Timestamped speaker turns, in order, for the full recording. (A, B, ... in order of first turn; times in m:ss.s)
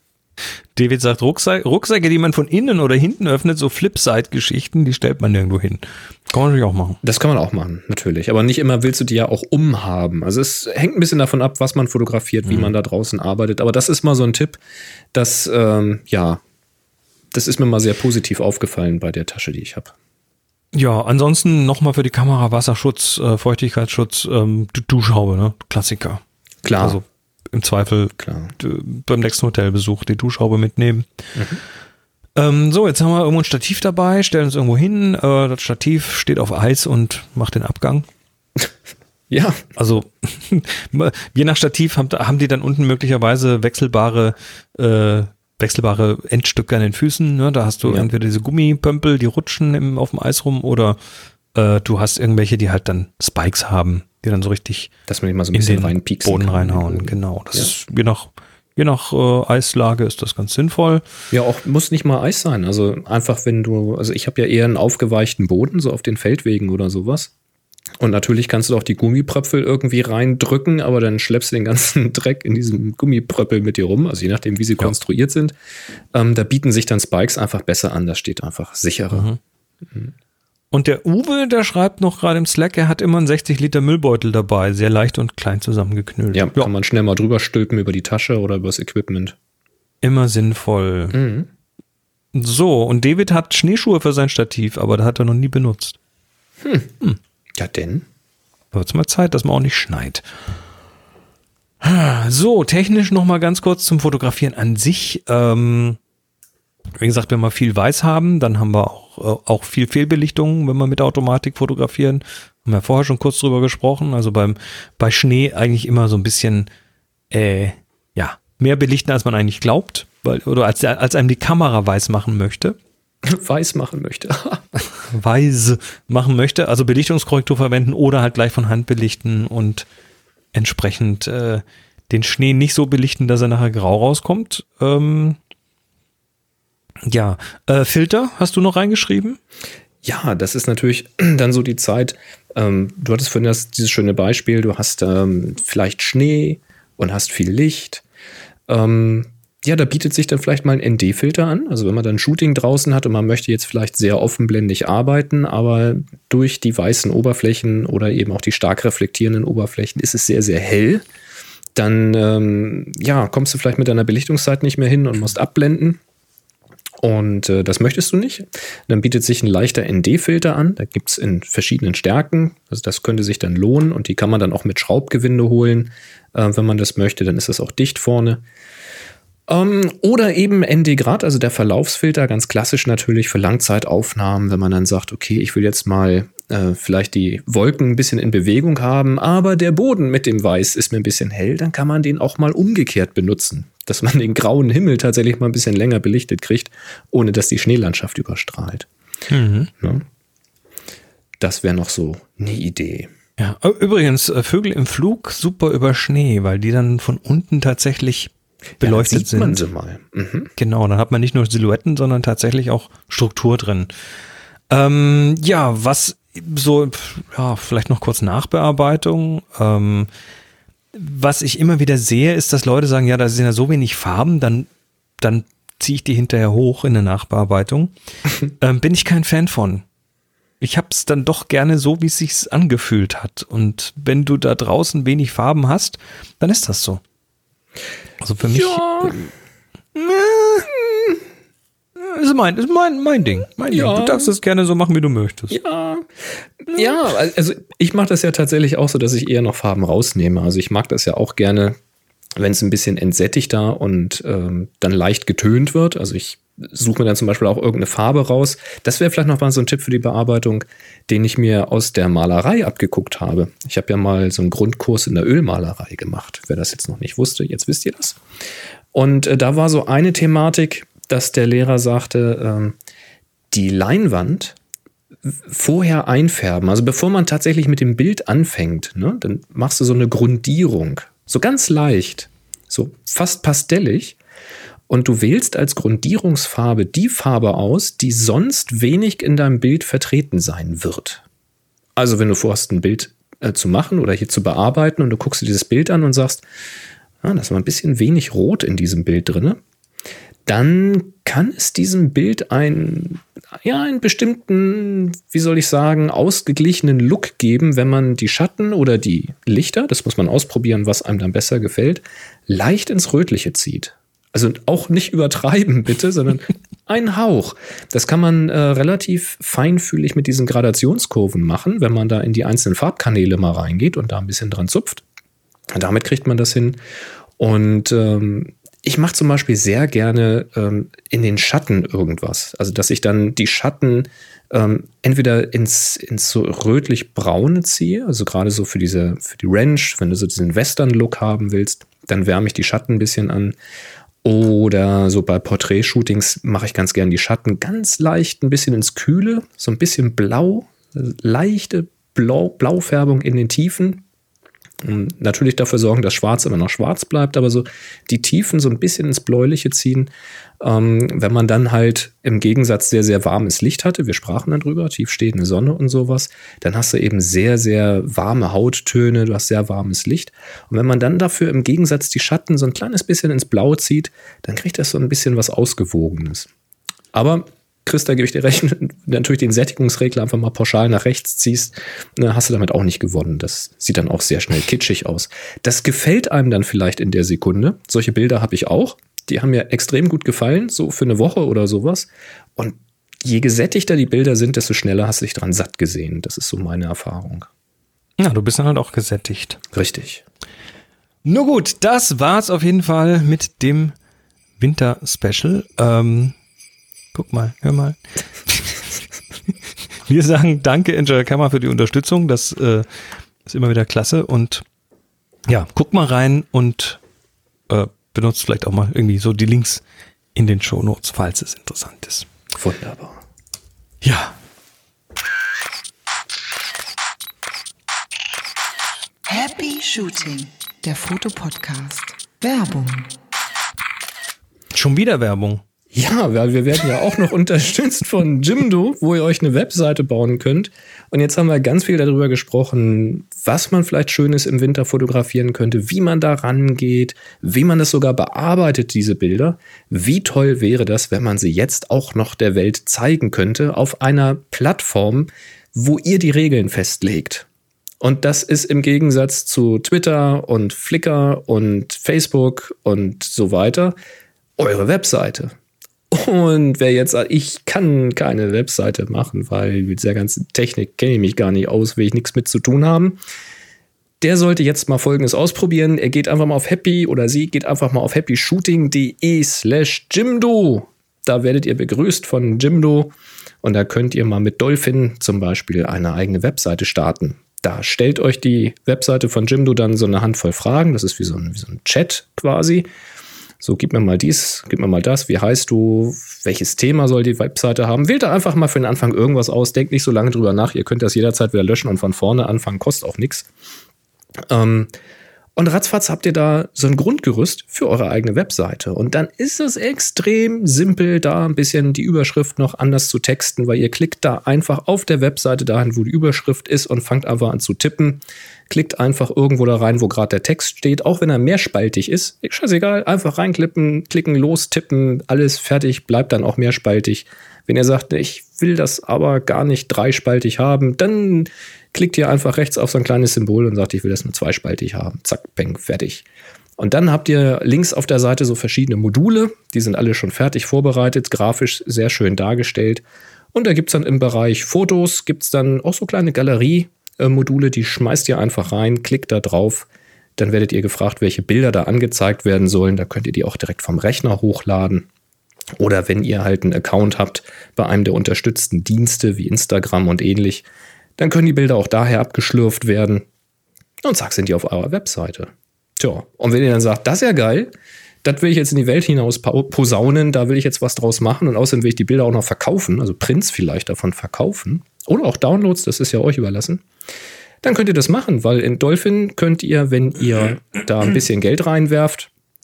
0:00.7-0:07.0 A
0:07.0-0:14.6 B
0:15.1-0:16.4 B
0:17.3-0:19.9 B
0:20.7-0:26.2 A
0:26.6-0:27.0 B
0:26.8-0:31.0 A
0:28.2-0:28.5 B
0:31.3-0:31.6 B
0:32.4-0:38.0 A
0:39.3-0:39.6 B
0:39.8-0:51.0 A
0:51.5-0:54.9 A
0:55.1-0:57.7 B
0:55.5-1:01.0 A
1:01.3-1:07.3 B
1:08.0-1:15.5 B
1:16.1-1:19.3 B
1:19.1-1:19.4 A
1:20.7-1:26.7 A
1:26.3-1:29.3 B
1:30.0-1:31.1 A
1:31.1-1:31.5 B
1:32.3-1:36.0 A
1:36.6-1:36.9 B
1:37.6-1:38.0 B
1:38.7-1:40.2 A
1:41.8-1:46.0 A
1:47.0-1:56.7 A
1:57.3-2:02.8 A
2:03.2-2:04.6 B
2:05.1-2:09.8 A
2:10.5-2:15.4 A
2:17.0-2:19.4 A
2:20.0-2:28.0 B
2:28.7-2:41.0 B
2:41.7-2:46.0 B
2:47.0-2:58.4 B
2:59.5-3:18.9 B
3:19.3-3:19.7 A
3:19.8-3:20.0 B
3:21.4-3:23.1 B
3:23.4-3:29.7 A
3:28.8-3:30.5 B
3:30.6-3:33.9 A
3:34.7-3:40.1 A
3:40.9-3:44.7 A
3:45.2-3:47.9 A
3:48.6-3:49.8 A
3:50.6-3:57.0 A
3:58.2-3:59.3 A
3:58.5-3:59.2 B
3:59.9-4:00.7 A
4:02.0-4:05.6 A
4:03.7-4:04.4 B
4:05.5-4:06.0 B
4:06.6-4:11.8 B
4:12.4-4:28.2 B
4:28.9-4:32.7 B
4:33.5-4:34.6 B
4:35.3-4:44.2 B
4:44.9-4:51.2 B
4:52.0-4:56.4 B
4:57.2-4:59.6 B
5:00.4-5:25.0 B
5:25.7-5:26.8 B
5:27.4-5:43.5 B
5:44.2-5:54.0 B
5:54.8-6:00.1 B
6:00.6-6:16.5 B
6:17.1-6:37.5 B
6:38.2-6:39.6 A
6:39.7-6:40.2 B
6:41.2-6:43.9 A
6:44.6-6:46.3 A
6:47.1-6:49.0 A
6:50.1-6:52.9 A
6:53.4-6:54.6 A
6:55.5-6:57.0 A
6:57.7-6:59.8 A
7:00.3-7:02.3 A
7:02.5-7:03.2 B
7:04.0-7:04.3 A
7:09.2-7:13.1 C
7:14.7-7:15.6 A
7:15.9-7:37.4 B
7:38.0-7:43.9 B
7:44.6-7:45.5 B
7:46.1-7:53.2 B
7:54.2-8:12.9 B
8:13.6-8:23.5 B
8:24.5-8:24.9 B
8:25.6-8:56.2 B
8:56.8-9:03.0 B
9:03.5-9:15.1 B
9:15.8-9:20.6 B
9:21.2-9:23.2 B
9:24.0-9:27.7 B
9:28.2-9:36.8 B
9:37.6-9:42.3 B